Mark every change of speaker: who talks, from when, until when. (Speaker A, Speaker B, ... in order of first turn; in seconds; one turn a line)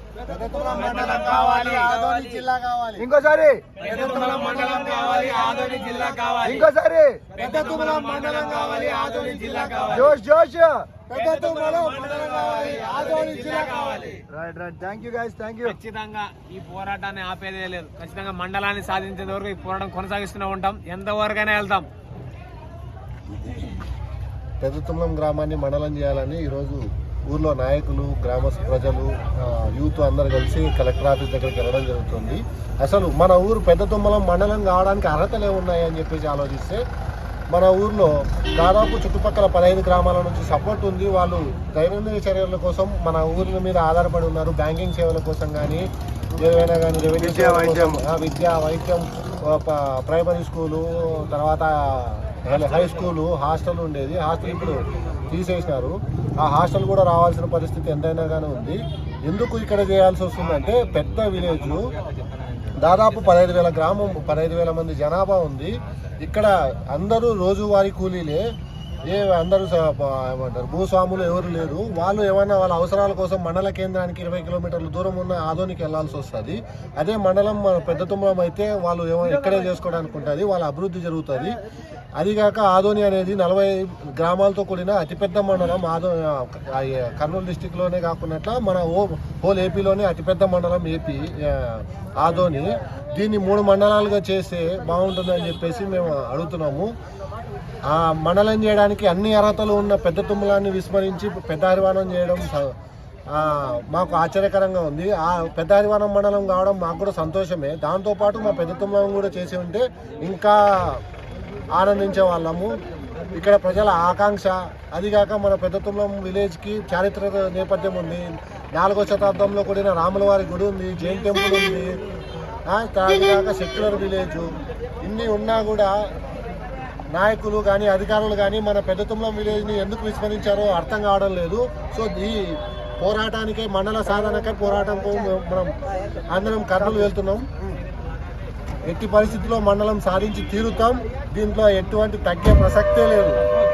Speaker A: 0.3-3.0
Speaker B: 3.0-3.6
Speaker A: 3.8-6.5
Speaker C: 5.0-6.4
Speaker B: 6.4-7.2
Speaker A: 7.4-10.1
Speaker C: 7.5-9.8
Speaker B: 9.9-10.8
Speaker A: 11.1-14.1
Speaker C: 13.1-14.1
Speaker B: 14.3-15.8
Speaker C: 15.7-21.9
Speaker A: 24.6-36.8
Speaker A: 37.5-61.8
Speaker B: 47.2-48.0
Speaker A: 62.8-68.4
Speaker A: 69.1-81.5
Speaker A: 82.2-96.9
Speaker A: 97.9-102.7
Speaker A: 103.3-111.0
Speaker A: 111.7-112.8
Speaker A: 113.3-122.0
Speaker A: 122.7-124.5
Speaker A: 125.0-126.0
Speaker A: 127.1-135.7
Speaker A: 136.3-137.4
Speaker B: 136.8-137.0
Speaker A: 138.9-143.4